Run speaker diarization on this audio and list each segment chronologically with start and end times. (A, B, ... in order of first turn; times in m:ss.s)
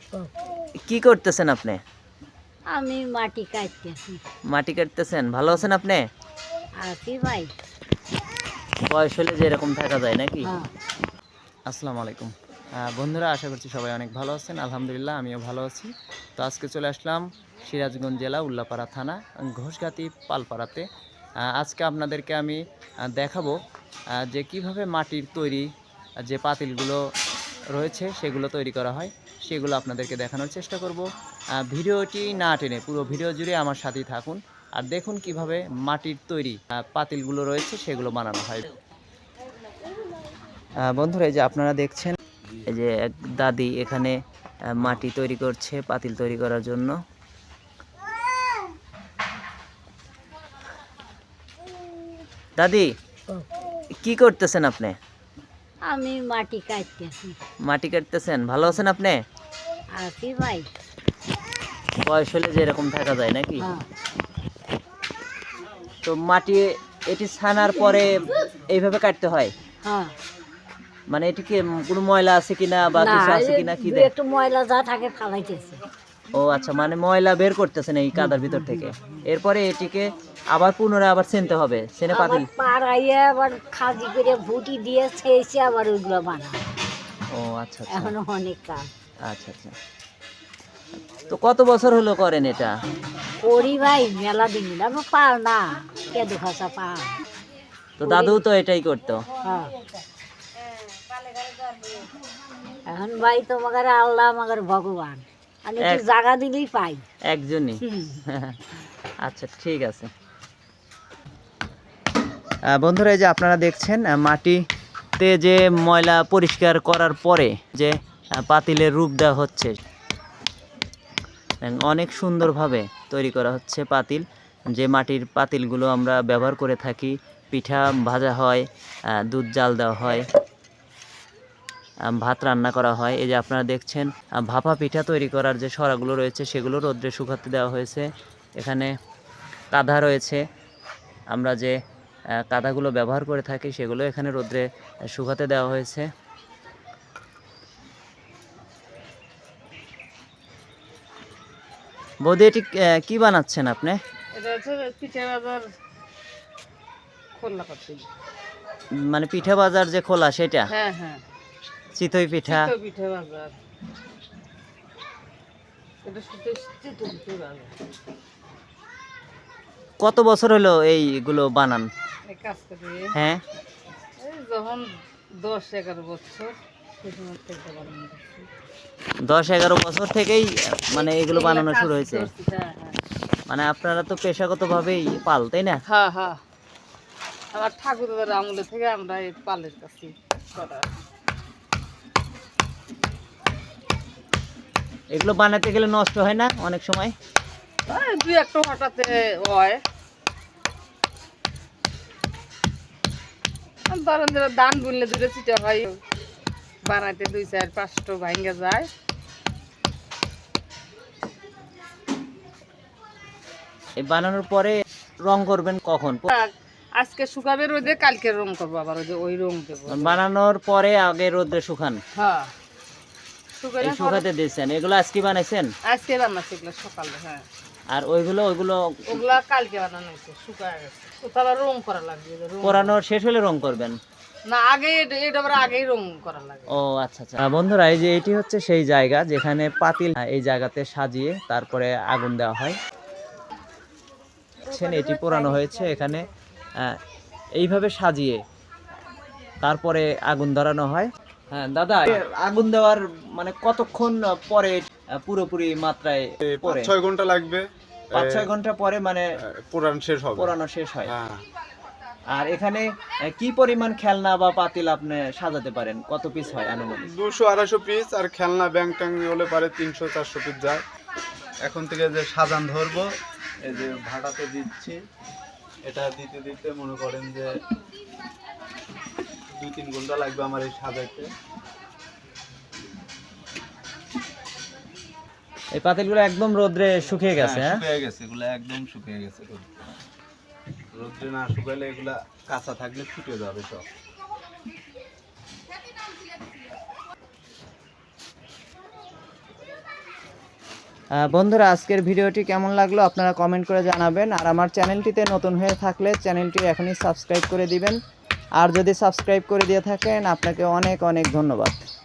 0:00.9-0:01.8 A
0:02.7-0:04.2 B
0:04.5-0:06.0 A
0:06.8-0:07.5 B
0:08.9-0:10.5 A
0:10.4-0:10.7 B
0:11.7-0:20.9 A
0:21.4-0:22.6 A
0:23.1-0:23.6 A
0:24.2-0:25.7 A
0:26.2-0:27.0 A
0:27.7-0:38.7 A
0:40.8-0:47.0 A
0:52.6-0:52.9 A
0:54.0-0:55.0 A
0:55.9-0:57.4 B
0:57.7-0:59.2 A
1:00.0-1:00.7 B
1:02.0-1:03.7 A
1:03.6-1:03.9 B
1:06.0-1:09.5 A
1:09.8-1:10.1 B
1:11.1-1:14.1 A
1:12.9-1:15.8 B
1:16.3-1:22.5 A
1:18.2-1:19.2 B
1:22.1-1:26.6 B
1:27.3-1:28.1 A
1:27.9-1:28.9 B
1:29.3-1:29.7 A
1:31.3-1:32.7 A
1:33.4-1:37.1 B
1:38.0-1:39.2 A
1:38.0-1:38.4 B
1:39.4-1:39.7 B
1:42.9-1:47.0 B
1:47.3-1:48.6 A
1:47.8-1:48.2 B
1:49.2-1:50.1 A
1:52.7-1:54.6 A
1:55.2-1:59.7 A
2:01.6-2:04.2 A
2:04.7-2:08.6 A
2:09.2-2:10.3 A
2:12.1-2:18.1 A
2:18.6-2:18.9 A
2:19.7-2:20.4 A
2:21.3-2:21.8 A
2:22.4-2:26.1 A
2:32.2-2:34.0 A
2:34.3-2:35.6 C
2:37.4-2:38.1 C
2:39.0-2:40.7 A
2:40.7-2:41.2 C
2:42.0-2:42.7 A
2:42.5-2:43.6 C
2:46.0-2:47.7 C
2:50.0-2:51.9 A
2:52.3-2:53.1 C
2:53.1-2:53.4 A
2:54.2-2:58.5 C
2:59.2-3:02.3 A
3:00.9-3:03.0 C
3:03.5-3:05.8 A
3:05.9-3:06.4 C
3:07.5-3:10.9 C
3:15.1-3:17.1 A
3:17.9-3:19.8 C
3:23.9-3:26.0 C
3:26.8-3:28.9 C
3:34.0-3:36.2 A
3:36.3-3:40.2 C
3:39.9-3:42.0 A
3:42.2-3:42.5 C
3:43.6-3:44.3 C
3:43.8-3:45.7 A
3:45.9-3:47.4 C
3:47.9-3:49.2 A
3:49.1-3:53.0 C
3:52.6-3:54.0 A
3:54.5-3:56.7 C
3:56.8-4:02.8 A
4:04.7-4:06.2 A
4:07.6-4:08.4 A
4:09.6-4:16.9 A
4:16.4-4:18.5 D
4:18.1-4:19.2 A
4:19.5-4:20.5 D
4:20.3-4:21.1 A
4:21.1-4:21.4 D
4:22.3-4:27.1 A
4:27.1-4:30.8 D
4:31.6-4:33.1 D
4:33.6-4:35.0 D
4:35.8-4:37.6 D
4:39.5-4:41.3 D
4:45.8-4:47.8 A
4:47.3-4:49.6 D
4:50.9-4:53.8 D
5:01.2-5:08.0 A
5:08.6-5:11.8 A